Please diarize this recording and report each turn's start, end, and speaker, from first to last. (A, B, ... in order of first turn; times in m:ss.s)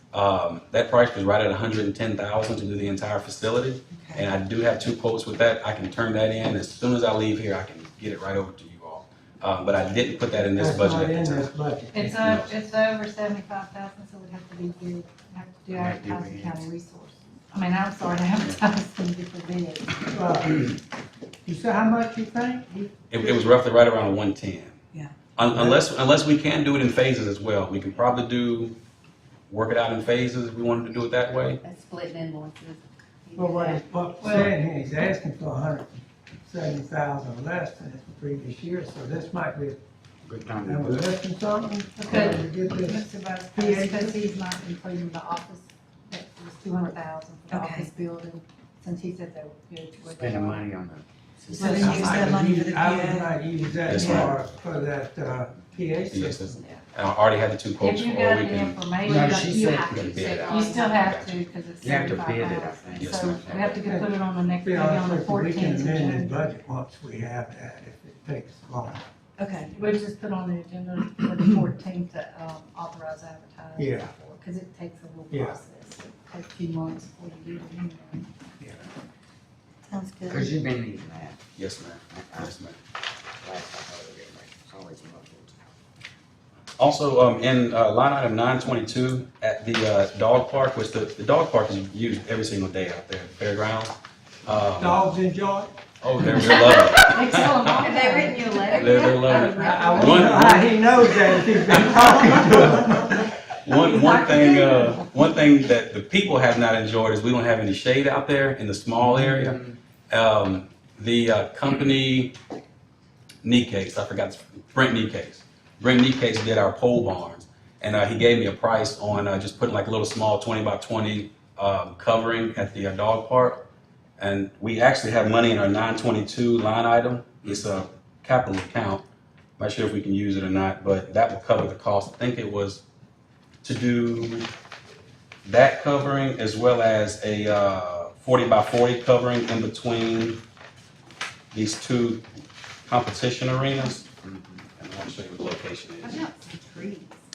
0:00.1-0:12.6 A
0:03.9-0:04.3 B
0:10.6-0:12.0 C
0:11.9-0:20.6 D
0:15.7-0:16.7 E
0:20.1-0:20.7 C
0:21.4-0:23.3 C
0:23.1-0:24.8 A
0:25.4-0:28.8 A
0:25.5-0:25.9 C
0:29.5-0:31.6 A
0:31.6-0:33.8 F
0:33.4-0:39.8 C
0:34.2-0:34.5 D
0:40.2-0:41.2 E
0:40.6-0:44.2 C
0:42.0-0:50.7 D
0:47.5-0:47.9 B
0:50.0-0:52.4 E
0:51.5-0:53.4 B
0:51.6-0:52.2 D
0:51.7-0:56.5 C
0:53.8-0:54.4 A
0:56.1-0:58.8 A
0:57.8-1:06.5 D
0:59.0-1:00.6 E
0:59.9-1:01.4 A
1:00.5-1:00.8 B
1:01.8-1:04.0 E
1:03.0-1:03.4 A
1:03.8-1:09.0 C
1:09.4-1:09.7 B
1:09.7-1:18.3 D
1:13.8-1:14.1 C
1:15.3-1:15.6 C
1:19.9-1:20.5 B
1:20.3-1:21.4 E
1:21.6-1:22.8 A
1:22.1-1:22.5 E
1:23.4-1:25.6 E
1:26.8-1:35.0 A
1:34.7-1:36.6 C
1:36.0-1:38.0 A
1:36.4-1:39.0 D
1:37.7-1:40.3 F
1:37.8-1:39.8 B
1:38.7-1:41.0 A
1:39.5-1:43.2 C
1:41.7-1:43.0 A
1:43.6-1:49.6 A
1:44.0-1:45.0 D
1:49.0-1:49.7 E
1:50.1-1:52.4 A
1:53.4-2:03.6 A
2:04.2-2:09.0 A
2:09.6-2:12.8 A
2:13.6-2:14.5 A
2:15.5-2:20.4 A
2:21.5-2:22.2 A
2:22.9-2:24.1 A
2:24.2-2:24.6 E
2:24.8-2:26.2 A
2:26.0-2:27.1 F
2:26.2-2:27.0 B